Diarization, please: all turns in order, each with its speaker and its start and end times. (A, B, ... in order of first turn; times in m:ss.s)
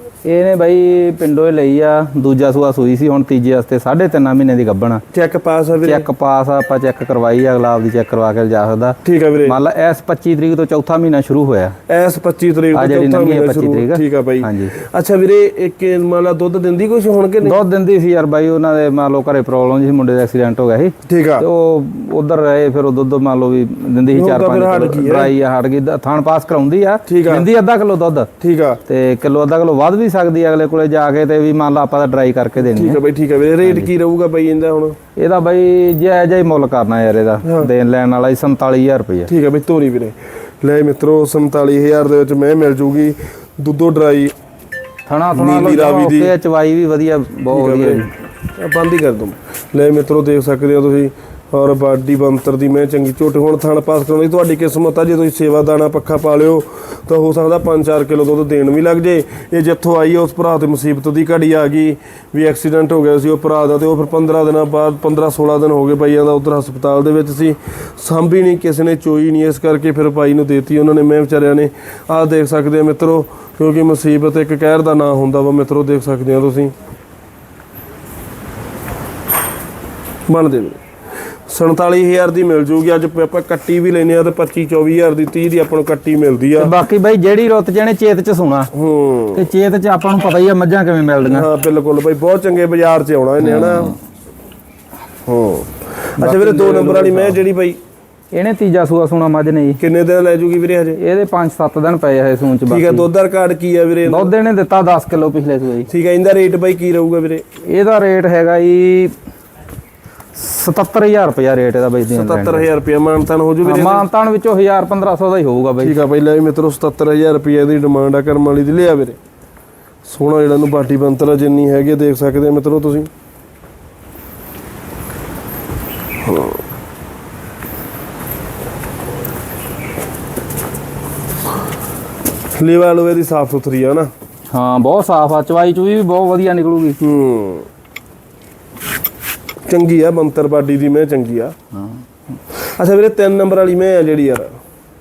0:00.2-0:05.0 A
0:05.1-0:06.1 B
0:05.8-0:11.8 A
0:09.0-0:09.6 B
0:11.9-0:17.6 B
0:12.7-0:14.7 A
0:17.4-0:28.3 A
0:21.1-0:21.5 B
0:24.1-0:25.3 B
0:27.1-0:27.5 B
0:28.4-0:28.8 B
0:28.9-0:33.0 A
0:32.6-0:35.0 B
0:33.6-0:33.9 A
0:35.2-0:39.3 A
0:37.4-0:37.7 B
0:39.3-0:44.3 B
0:45.1-0:48.1 A
0:45.4-0:46.3 B
0:47.5-0:48.0 B
0:48.6-1:16.7 B
1:20.3-1:20.8 B
1:21.5-1:26.7 B
1:26.6-1:28.7 A
1:28.7-1:29.5 B
1:29.3-1:31.5 A
1:31.3-1:34.0 B
1:33.4-1:33.9 A
1:35.3-1:37.8 B
1:36.2-1:37.4 A
1:38.3-1:39.8 A
1:39.8-1:41.0 B
1:41.0-1:43.1 A
1:42.7-1:44.3 B
1:44.1-1:45.9 A
1:45.9-1:47.4 B
1:47.7-1:49.1 A
1:50.4-1:52.7 A
1:52.1-1:54.1 B
1:53.6-1:56.0 A
1:55.8-1:59.2 B
2:00.1-2:03.1 B
2:06.2-2:06.6 B
2:12.6-2:14.1 B
2:14.5-2:17.0 A
2:17.0-2:17.7 B
2:19.7-2:21.6 B
2:22.6-2:24.5 B